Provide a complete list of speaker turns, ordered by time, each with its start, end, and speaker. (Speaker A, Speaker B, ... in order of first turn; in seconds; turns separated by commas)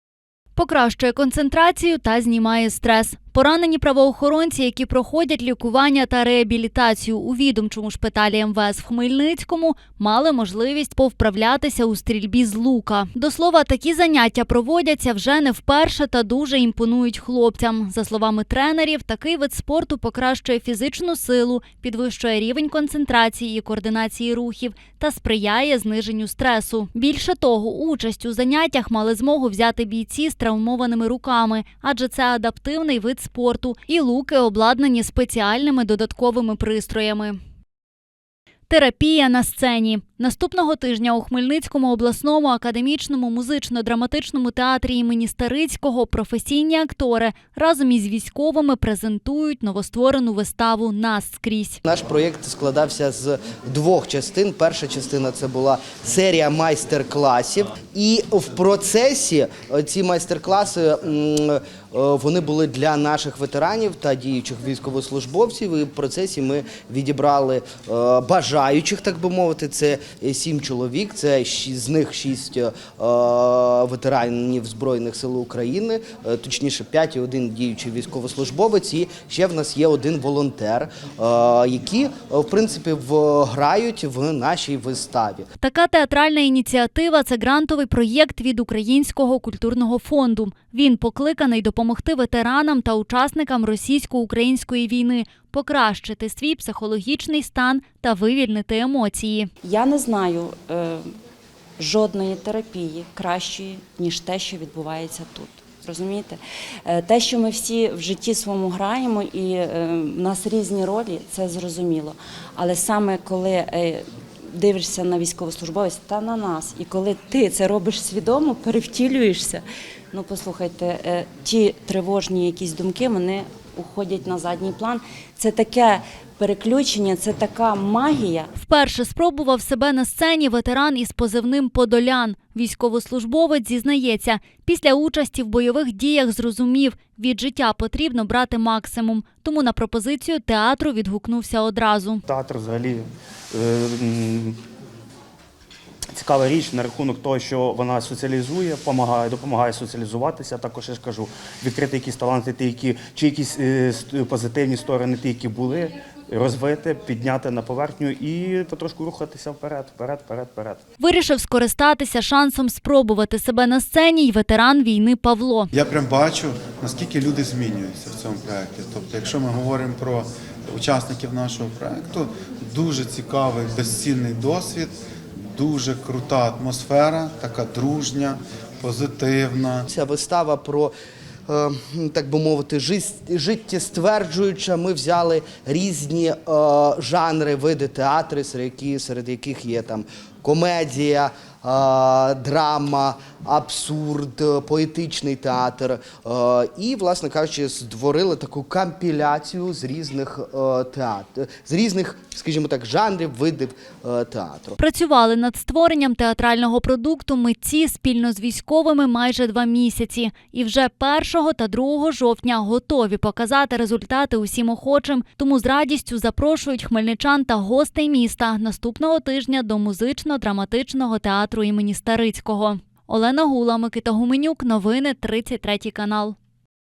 Speaker A: 0.6-37.4, Speaker A: 38.7-51.8, Speaker B: 51.8-85.5, Speaker A: 85.6-99.5, Speaker C: 99.6-101.1, Speaker C: 101.8-128.5, Speaker A: 128.6-142.2, Speaker D: 142.2-144.6, Speaker D: 146.1-160.8, Speaker A: 161.0-165.7, Speaker E: 165.7-179.9, Speaker B: 179.9-180.9, Speaker B: 181.5-204.8, Speaker A: 204.8-226.3